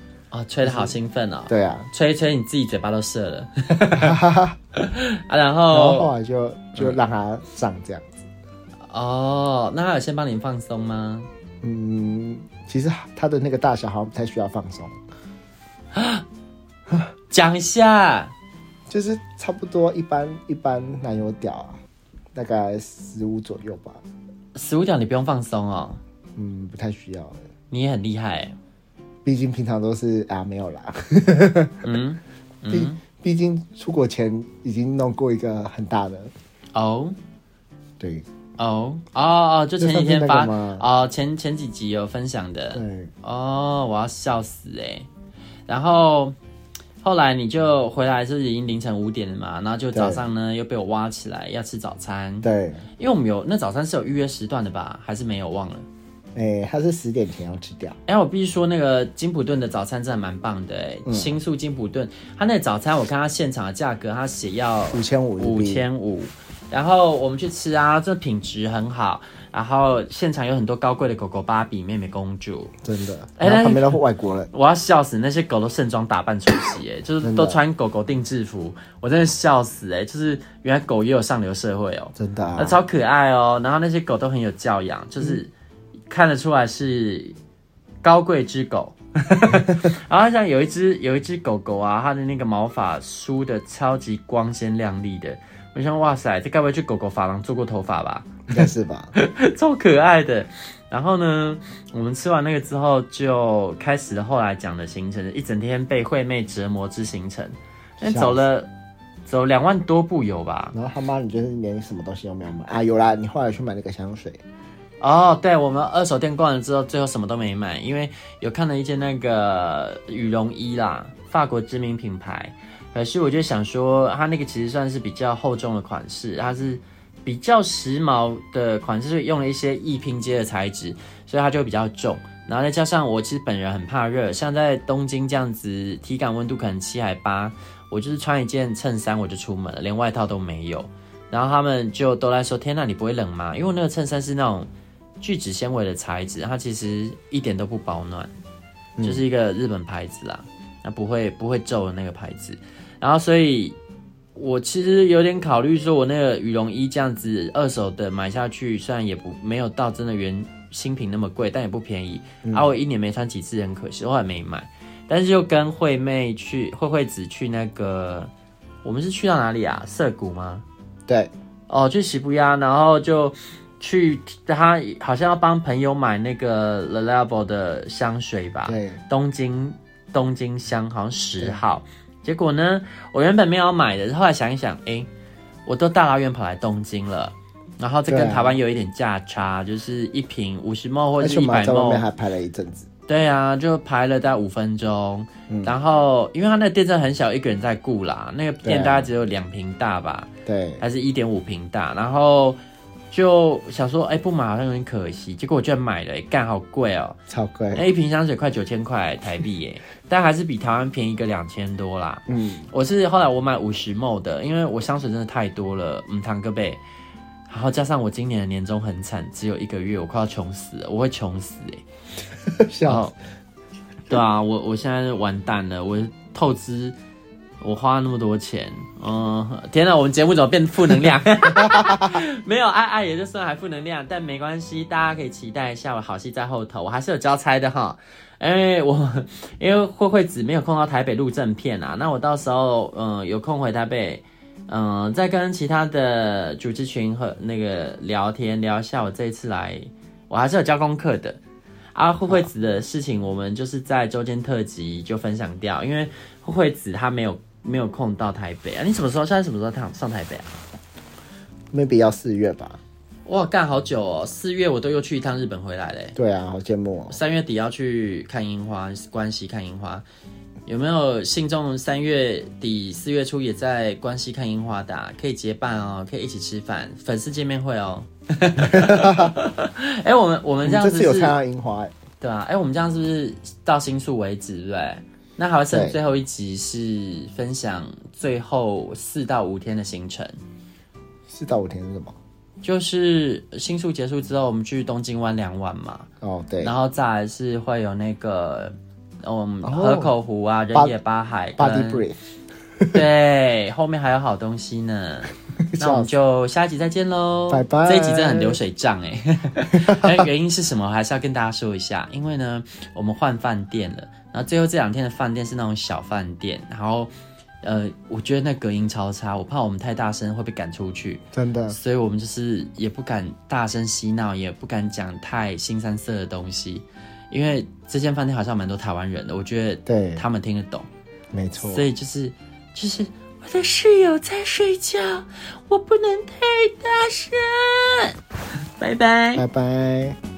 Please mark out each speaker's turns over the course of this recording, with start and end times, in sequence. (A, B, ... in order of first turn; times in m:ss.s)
0:00.3-0:04.2 A
0:00.6-0:00.9 B
0:01.5-0:01.9 B
0:03.9-0:04.6 B
0:04.7-0:06.1 A
0:05.7-0:08.1 B
0:08.9-0:11.3 A
0:11.6-0:15.0 B
0:15.9-0:16.2 A
0:17.3-0:18.3 A
0:18.9-0:21.8 B
0:22.3-0:24.0 B
0:24.5-0:26.0 A
0:26.4-0:27.4 B
0:27.7-0:28.5 A
0:29.2-0:31.8 B
0:31.8-0:33.0 A
0:32.7-0:36.3 B
0:36.7-0:37.2 A
0:38.0-0:38.2 B
0:38.6-0:45.1 A
0:39.8-0:40.8 B
0:42.7-0:43.1 B
0:45.7-0:46.4 A
0:47.0-0:52.5 A
0:49.9-0:50.2 B
0:52.4-0:52.8 B
0:53.0-0:55.8 A
0:56.4-0:58.0 B
0:58.1-1:12.7 A
1:01.0-1:01.3 B
1:04.9-1:05.8 B
1:12.8-1:14.5 B
1:13.4-1:14.0 A
1:14.5-1:25.5 A
1:17.2-1:17.6 B
1:22.2-1:22.8 B
1:26.1-1:27.4 A
1:28.0-1:48.7 A
1:38.5-1:39.1 B
1:48.0-1:48.4 B
1:49.2-1:50.7 A
1:50.7-1:54.4 B
1:55.0-2:24.7 A
2:25.2-2:28.3 A
2:29.0-2:33.8 A
2:34.4-2:48.3 A
2:42.4-2:42.7 B
2:48.8-2:50.6 A
2:51.1-2:51.3 B
2:51.7-3:05.1 A
2:58.6-2:59.0 B
3:05.6-3:12.0 A
3:08.1-3:08.6 B
3:11.2-3:12.9 B
3:13.1-3:22.6 A
3:15.5-3:15.7 B
3:18.6-3:19.1 B
3:20.4-3:20.8 B
3:23.1-3:27.2 A
3:27.3-3:27.8 B
3:27.7-3:36.8 A
3:32.3-3:32.7 B
3:37.5-3:41.8 A
3:42.5-3:43.1 B
3:42.9-3:43.1 A
3:44.1-3:47.0 A
3:47.6-4:11.4 A
3:51.5-3:52.2 B
4:11.9-4:20.6 A
4:21.7-4:22.8 B
4:23.2-4:26.1 A
4:26.1-4:27.2 B
4:27.1-4:30.0 A
4:30.6-4:41.3 A
4:38.6-4:39.4 B
4:40.6-4:41.9 B
4:42.2-4:50.4 A
4:45.7-4:46.0 B
4:51.3-4:52.2 B
4:52.6-4:56.1 A
4:56.2-4:56.7 B
4:56.6-5:02.0 A
4:59.6-5:00.1 B
5:01.6-5:02.2 B
5:02.9-5:17.1 A
5:05.7-5:06.1 B
5:07.5-5:08.6 B
5:09.7-5:10.2 B
5:17.6-5:30.9 A
5:21.3-5:21.8 B
5:29.8-5:30.2 B
5:31.3-5:31.8 B
5:31.6-5:38.2 A
5:38.8-5:39.4 A
5:39.4-5:40.2 B